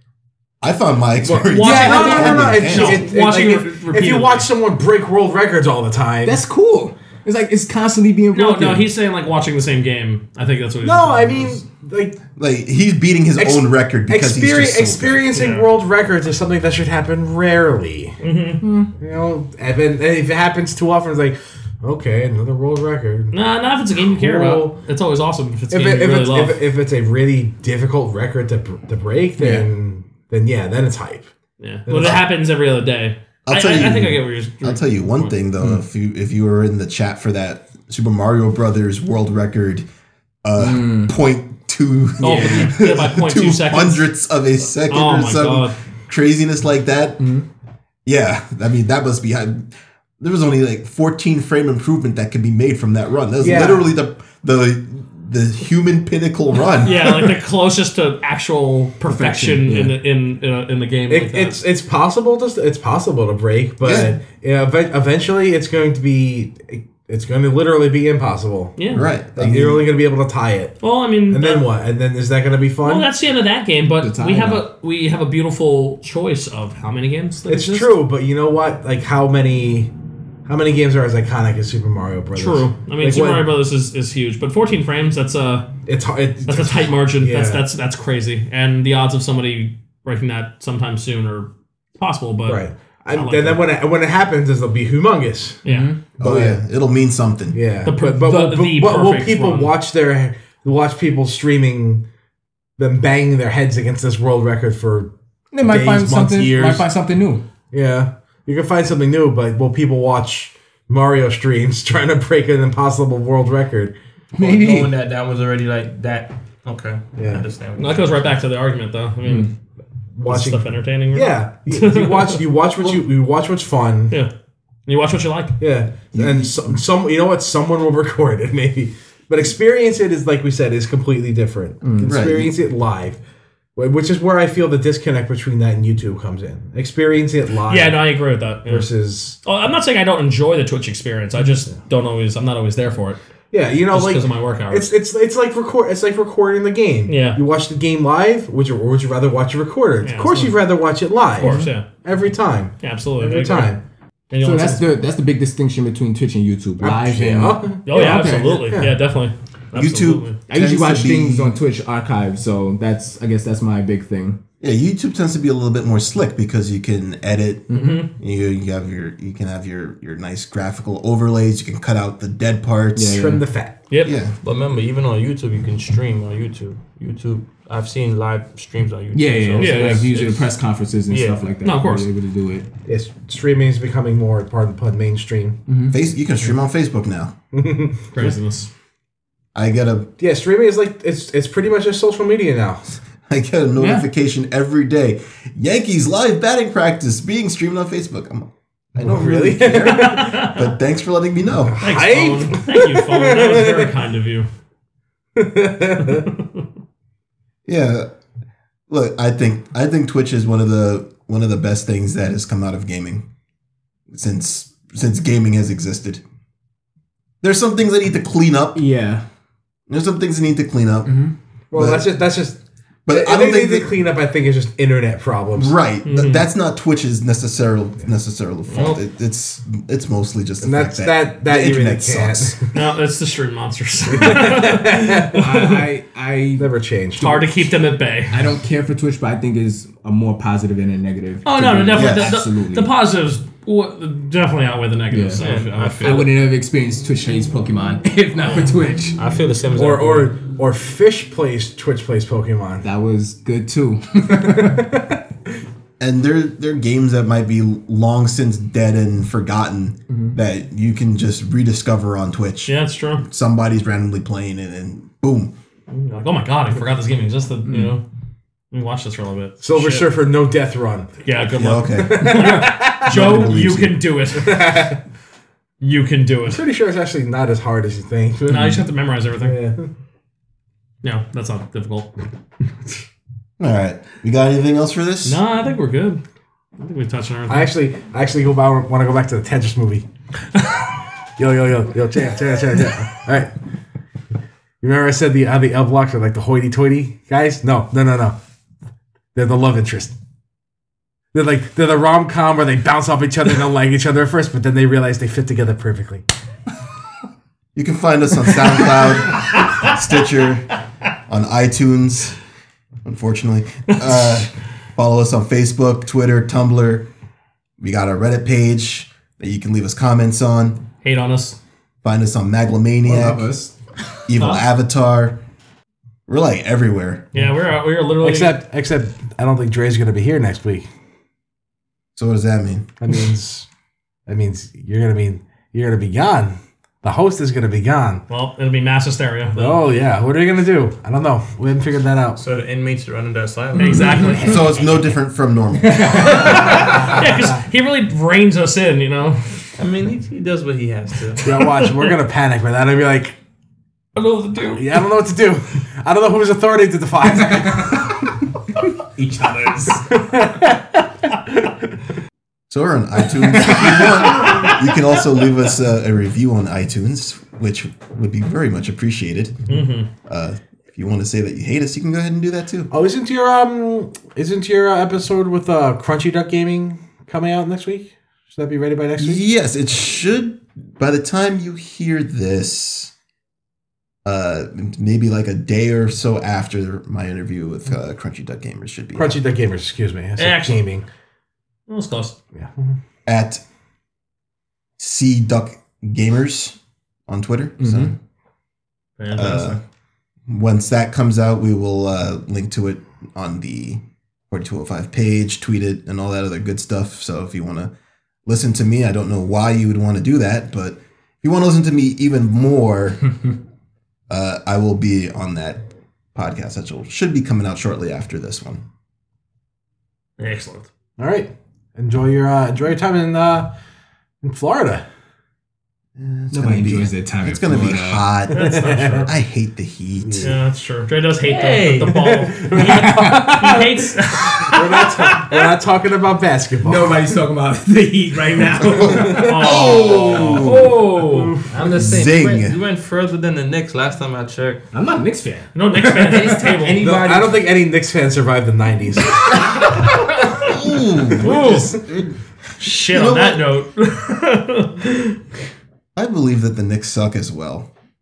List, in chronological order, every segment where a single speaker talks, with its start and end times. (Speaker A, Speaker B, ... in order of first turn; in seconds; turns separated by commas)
Speaker A: 0.6-3.1, Speaker B: 1.2-6.4, Speaker C: 1.5-4.5, Speaker D: 1.6-2.7, Speaker D: 6.2-8.9, Speaker C: 8.3-11.6, Speaker B: 10.8-12.2, Speaker A: 12.3-15.4, Speaker B: 13.4-18.2, Speaker C: 15.3-15.7, Speaker C: 18.2-18.6, Speaker D: 18.6-18.9, Speaker B: 19.0-23.3, Speaker C: 23.3-26.6, Speaker B: 24.1-24.8, Speaker B: 25.7-31.3, Speaker D: 29.4-29.7, Speaker C: 31.6-35.3, Speaker B: 31.9-32.2, Speaker A: 33.5-39.9, Speaker A: 40.4-47.4, Speaker D: 40.6-41.1, Speaker C: 42.2-44.1, Speaker C: 44.9-45.7, Speaker D: 47.2-47.4, Speaker A: 48.0-57.3, Speaker B: 53.4-53.9, Speaker C: 56.8-61.6, Speaker D: 59.0-60.0, Speaker B: 61.1-68.8, Speaker A: 63.8-64.2, Speaker C: 68.8-69.1, Speaker A: 68.9-69.9, Speaker B: 69.3-73.1, Speaker C: 70.8-71.7, Speaker C: 72.8-77.9, Speaker D: 74.0-74.6, Speaker B: 77.5-79.9, Speaker B: 80.5-83.5, Speaker C: 82.3-85.7, Speaker B: 85.8-87.7, Speaker C: 86.5-93.6, Speaker B: 92.5-95.6, Speaker C: 95.6-95.9, Speaker D: 95.7-96.0, Speaker A: 96.2-97.6, Speaker B: 96.2-96.6, Speaker B: 97.5-102.0, Speaker C: 97.8-99.7, Speaker B: 102.8-106.9, Speaker D: 105.5-107.4, Speaker B: 107.7-113.9, Speaker D: 114.3-114.9, Speaker E: 114.4-118.3, Speaker B: 117.2-117.4, Speaker C: 117.8-119.5, Speaker B: 120.1-124.2, Speaker C: 120.2-122.4, Speaker C: 124.9-125.6, Speaker B: 125.6-133.2, Speaker A: 126.1-126.5, Speaker D: 131.8-132.1, Speaker A: 132.0-132.5, Speaker B: 133.8-138.1, Speaker C: 137.7-138.9, Speaker B: 138.7-139.4, Speaker C: 139.4-143.2, Speaker B: 143.5-153.8, Speaker C: 143.9-144.9, Speaker C: 147.1-147.4, Speaker C: 150.0-150.6, Speaker C: 151.3-151.9, Speaker C: 152.8-153.7, Speaker C: 154.3-154.8, Speaker D: 154.4-158.7, Speaker B: 156.8-159.0, Speaker C: 157.8-160.4, Speaker A: 159.7-161.5, Speaker D: 160.5-164.4, Speaker A: 164.6-173.2, Speaker D: 167.7-168.0, Speaker C: 167.7-168.1, Speaker D: 172.9-173.4, Speaker B: 173.1-173.8, Speaker C: 173.9-174.2, Speaker A: 174.0-174.3, Speaker E: 174.4-180.5, Speaker D: 179.1-182.7, Speaker C: 179.6-180.1, Speaker E: 181.1-181.4, Speaker C: 181.6-182.1, Speaker B: 182.8-185.6, Speaker D: 185.7-185.9, Speaker A: 185.9-187.3, Speaker B: 187.5-188.2, Speaker C: 188.1-188.7, Speaker A: 189.5-190.1, Speaker B: 190.2-192.8, Speaker A: 193.2-201.9, Speaker C: 193.8-194.1, Speaker B: 199.0-200.3, Speaker C: 199.8-200.7, Speaker B: 201.7-203.9, Speaker C: 201.8-204.5, Speaker B: 205.3-206.3, Speaker A: 207.7-208.1, Speaker A: 208.9-213.2, Speaker A: 214.1-216.2, Speaker A: 217.4-218.8, Speaker D: 218.7-219.2, Speaker A: 219.9-222.1, Speaker D: 221.1-221.3, Speaker B: 221.7-225.7, Speaker A: 223.1-223.9, Speaker A: 225.6-232.6, Speaker C: 226.0-226.4, Speaker C: 228.7-229.0, Speaker B: 230.6-232.7, Speaker C: 232.7-235.8, Speaker B: 234.1-235.7, Speaker D: 235.3-236.7, Speaker B: 236.6-237.5, Speaker C: 237.2-238.4, Speaker D: 238.3-242.9, Speaker C: 241.4-246.2, Speaker A: 241.9-242.3, Speaker D: 245.1-245.4, Speaker E: 245.3-246.3, Speaker D: 245.9-249.2, Speaker E: 249.2-250.3, Speaker B: 249.7-252.8, Speaker D: 252.8-254.8, Speaker B: 254.4-255.1, Speaker A: 256.0-265.5, Speaker C: 262.6-263.2, Speaker C: 265.9-268.0, Speaker C: 268.7-270.1, Speaker B: 269.6-271.1, Speaker C: 271.2-274.9, Speaker A: 271.6-274.0, Speaker B: 272.0-273.5, Speaker B: 274.3-275.0, Speaker C: 275.8-276.6, Speaker B: 276.4-278.8, Speaker C: 278.5-279.6, Speaker B: 279.4-279.9, Speaker C: 281.0-282.2, Speaker A: 283.6-285.4, Speaker C: 285.2-286.2, Speaker C: 286.8-287.7, Speaker B: 287.5-290.0, Speaker B: 291.4-293.5, Speaker B: 294.8-298.4, Speaker B: 299.3-300.1, Speaker B: 301.3-306.2, Speaker A: 307.7-310.6, Speaker A: 311.3-312.4, Speaker A: 313.0-317.1, Speaker A: 317.8-320.8, Speaker C: 321.0-321.6, Speaker A: 322.0-323.5, Speaker D: 323.0-323.7, Speaker A: 324.3-325.4, Speaker C: 324.4-324.7, Speaker A: 326.3-327.3, Speaker C: 327.3-328.6, Speaker B: 328.2-330.9, Speaker A: 332.1-332.9, Speaker B: 333.0-333.7, Speaker B: 334.3-338.2, Speaker C: 338.3-339.8, Speaker B: 339.6-342.4, Speaker E: 342.4-344.6, Speaker C: 343.8-344.6, Speaker A: 344.3-347.1, Speaker D: 345.9-346.4, Speaker C: 346.1-349.6, Speaker E: 349.8-351.5, Speaker B: 351.4-353.4, Speaker C: 351.6-352.1, Speaker C: 354.1-355.0, Speaker B: 354.7-358.2, Speaker D: 359.1-360.1, Speaker B: 360.1-361.4, Speaker A: 362.7-369.6, Speaker D: 363.5-364.3, Speaker C: 364.2-364.8, Speaker C: 369.7-370.1, Speaker A: 370.2-372.9, Speaker B: 372.9-379.4, Speaker A: 379.2-383.1, Speaker A: 384.2-389.4, Speaker B: 389.1-391.0, Speaker C: 390.4-390.8, Speaker C: 391.9-392.4, Speaker A: 393.2-393.6, Speaker A: 395.0-396.8, Speaker A: 397.3-398.1, Speaker D: 397.8-398.1, Speaker C: 399.2-399.8, Speaker A: 399.3-399.8, Speaker A: 400.5-407.9, Speaker A: 408.4-413.4, Speaker A: 414.3-418.8, Speaker C: 420.4-420.9, Speaker B: 421.2-423.7, Speaker B: 424.4-425.0, Speaker A: 426.2-430.5, Speaker D: 426.5-428.2, Speaker C: 428.5-429.3, Speaker B: 428.6-429.3, Speaker B: 430.2-430.5, Speaker C: 430.4-435.6, Speaker E: 431.4-432.9, Speaker B: 432.6-433.8, Speaker B: 434.6-437.2, Speaker D: 436.8-440.3, Speaker A: 438.9-441.0, Speaker C: 439.1-441.6, Speaker B: 441.2-441.9, Speaker E: 441.6-444.8, Speaker A: 441.9-442.8, Speaker D: 444.9-447.0, Speaker C: 445.7-447.0, Speaker E: 446.3-447.6, Speaker B: 447.0-449.6, Speaker C: 449.5-450.7, Speaker A: 450.5-452.4, Speaker C: 451.3-451.9, Speaker C: 452.8-455.4, Speaker A: 453.0-453.6, Speaker A: 456.1-457.9